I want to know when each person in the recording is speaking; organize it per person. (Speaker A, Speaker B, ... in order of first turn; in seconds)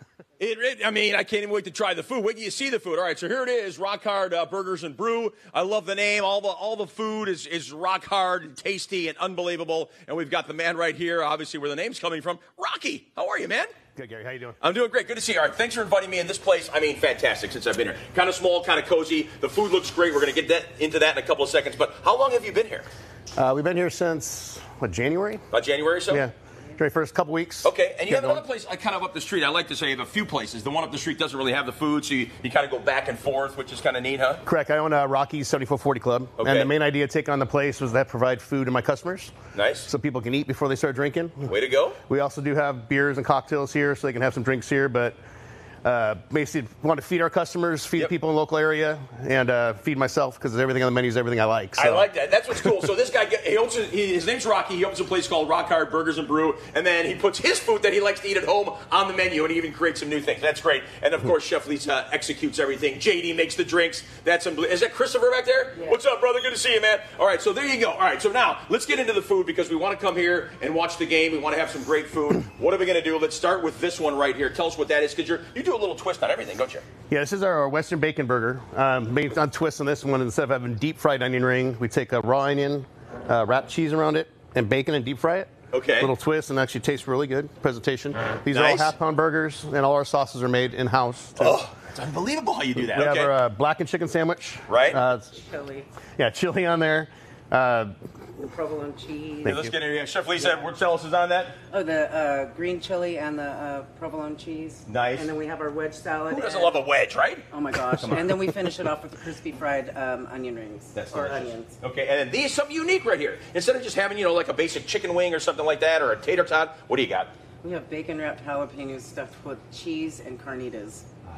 Speaker A: 0.4-13.7, 14.6-22.9, 25.5-26.2, 27.6-34.4, 36.4-36.7, 39.5-39.9, 41.5-42.0, 51.8-76.8, 85.7-86.1, 88.5-88.9, 91.4-93.3, 94.7-95.0, 99.4-101.5, 104.8-105.3, 106.3-108.5, 110.9-117.3
Speaker B: 13.9-14.6, 23.4-25.4, 26.1-28.4, 34.5-39.3, 39.9-41.5, 42.1-45.2, 45.8-52.1, 77.1-91.6, 92.8-95.3, 96.2-97.9, 99.4-99.7
Speaker C: 95.2-95.9, 98.4-99.6, 101.7-106.9, 107.5-111.7, 117.6-121.0